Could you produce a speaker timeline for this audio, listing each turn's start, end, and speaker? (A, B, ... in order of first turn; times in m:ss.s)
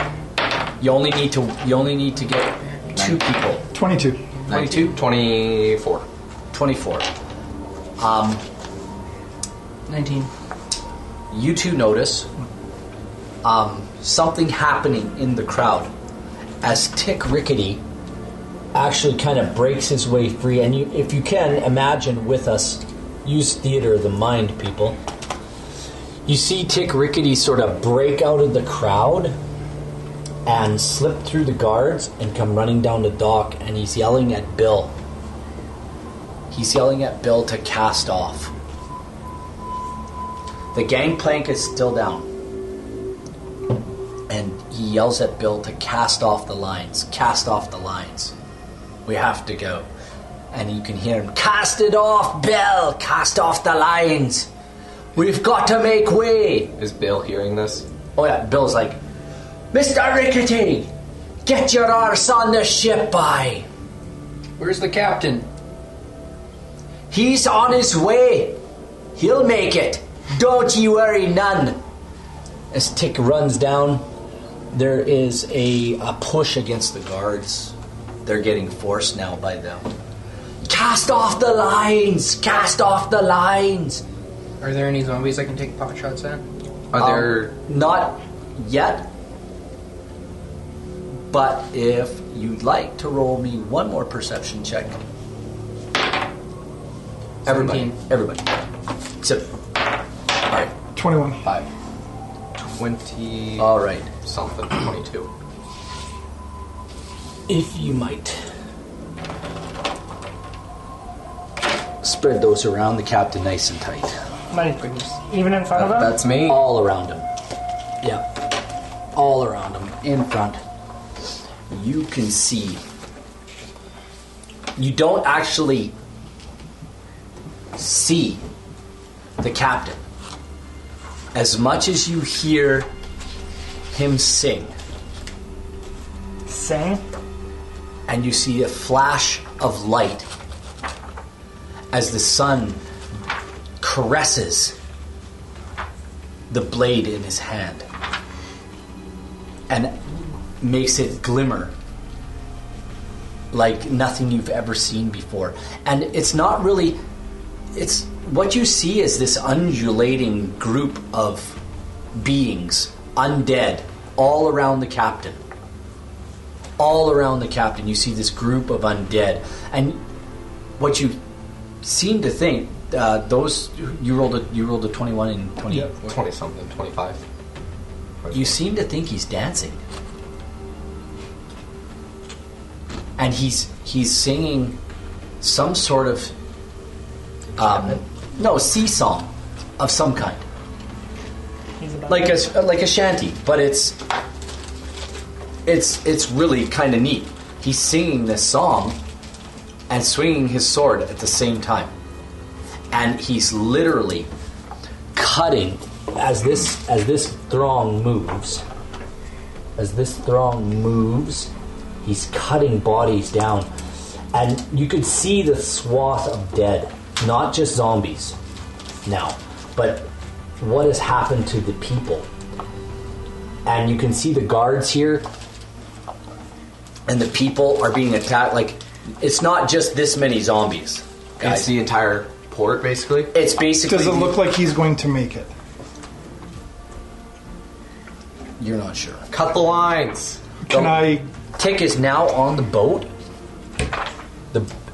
0:00.8-0:03.6 A
0:03.7-0:04.3 B
0:04.5-0:06.0 C
0:04.5-0:04.9 A
0:06.5-0:07.1 A
0:08.0-0:08.4 A
0:09.9-0:10.3 D
0:11.3-0:12.3 A
0:13.4-0:15.9 A
0:16.6-0:17.8 A
0:18.7-0:25.0 A
0:26.2-0:29.4 A
0:30.4-0:34.9 A
0:36.5-0:38.5 A
0:40.7-0:42.3 A
0:44.3-0:48.3 A
0:49.0-0:49.9 A
0:50.5-0:54.5 A
0:55.1-0:56.7 A
0:56.8-0:57.8 C
0:58.2-0:59.0 A
0:59.7-1:00.9 A
1:01.4-1:03.6 A
1:04.6-1:05.5 D
1:07.1-1:08.6 A
1:09.2-1:11.8 A
1:12.7-1:14.0 A
1:14.7-1:17.7 A
1:18.2-1:19.9 A
1:20.6-1:24.0 A
1:24.6-1:26.4 D
1:26.9-1:27.5 C
1:27.0-1:29.1 A
1:31.3-1:35.0 A
1:37.4-1:38.0 D
1:37.4-1:38.4 A
1:39.2-1:39.5 A
1:40.5-1:40.7 A
1:40.9-1:41.4 B
1:41.4-1:41.7 C
1:42.6-1:43.7 C
1:43.6-1:44.1 A
1:44.2-1:45.3 C
1:47.5-1:48.4 A
1:52.0-1:54.2 A
1:54.5-1:56.2 E
1:54.7-1:55.2 D
1:55.7-1:56.6 C
1:56.4-1:57.3 A
1:59.1-2:00.6 A
2:01.7-2:02.8 A
2:04.8-2:05.9 A
2:07.7-2:08.4 A
2:09.4-2:10.0 A
2:11.3-2:12.9 A
2:13.9-2:14.7 A
2:16.5-2:17.0 E
2:18.1-2:20.3 A
2:21.9-2:22.8 A
2:23.8-2:24.7 A
2:26.5-2:27.8 A
2:29.7-2:30.0 A
2:30.6-2:31.7 A
2:33.5-2:37.0 A
2:37.7-2:41.6 A
2:42.1-2:45.4 A
2:46.8-2:50.0 A
2:50.8-2:51.2 A
2:51.8-2:55.9 A
2:55.9-2:57.2 C
2:58.2-2:58.5 C
2:58.3-2:59.8 A
3:03.2-3:04.8 A
3:05.4-3:06.3 A
3:07.6-3:10.4 A
3:11.8-3:12.4 E
3:12.1-3:14.0 A
3:15.6-3:19.0 A
3:19.9-3:21.9 A
3:22.9-3:24.3 A
3:25.1-3:28.6 A
3:29.8-3:31.5 A
3:32.0-3:33.7 A
3:34.3-3:38.4 A
3:39.0-3:40.1 A
3:40.6-3:42.3 A
3:43.6-3:45.2 A
3:47.1-3:51.7 A
3:51.4-3:53.3 C
3:53.3-3:54.4 A
3:53.8-3:55.5 B
3:58.6-3:59.3 A
3:59.3-4:00.4 C
4:00.6-4:01.3 B
4:00.7-4:01.0 A
4:01.6-4:03.1 A